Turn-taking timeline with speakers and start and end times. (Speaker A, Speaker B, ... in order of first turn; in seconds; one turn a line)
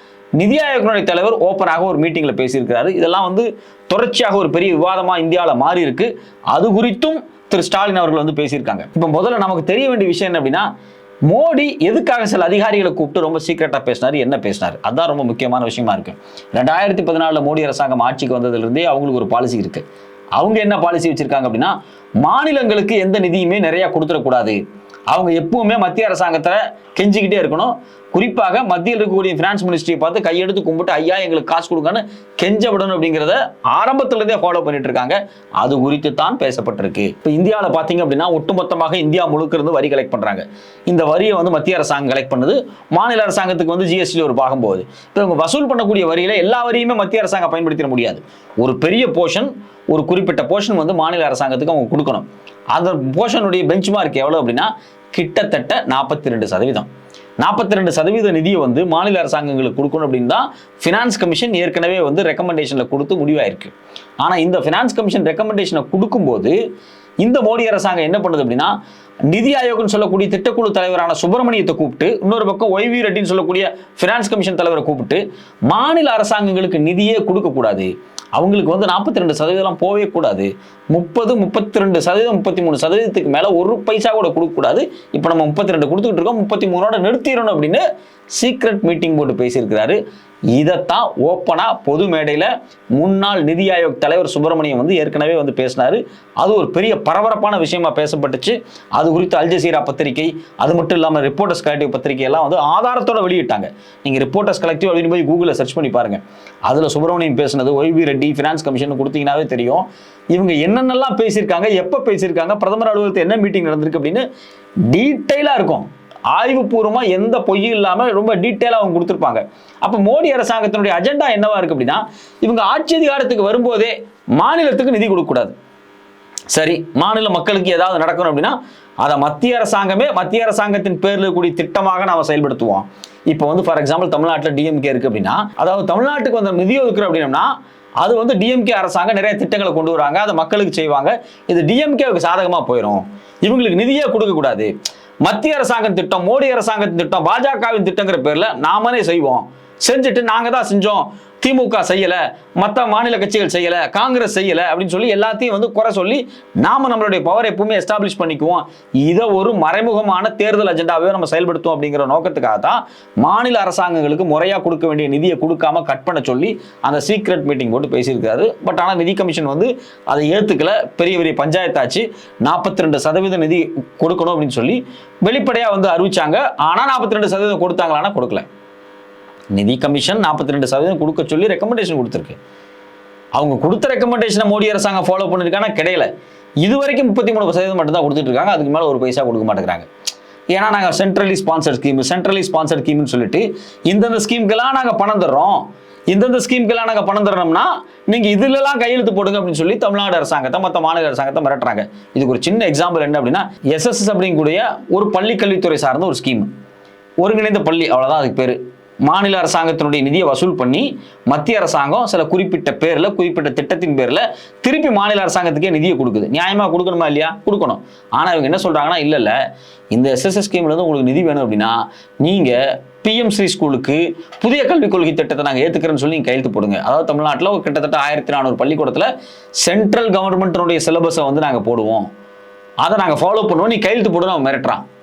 Speaker A: 0.4-10.7
Speaker A: 11.3-19.8
Speaker A: 20.4-24.6
Speaker A: 25.1-56.9
Speaker A: 57.4-66.5
Speaker A: 67.2-68.7
Speaker A: 69.3-90.0
Speaker A: 90.5-114.2
Speaker A: 114.9-125.5
Speaker A: 126.5-144.7
Speaker A: 145.2-178.4
Speaker A: 179.5-182.4
Speaker A: 183.3-186.1
Speaker A: 186.6-189.9
Speaker A: 190.5-206.5
Speaker A: 207.2-219.3
Speaker A: 219.9-229.1
Speaker A: 229.6-232.1
Speaker A: 232.8-234.8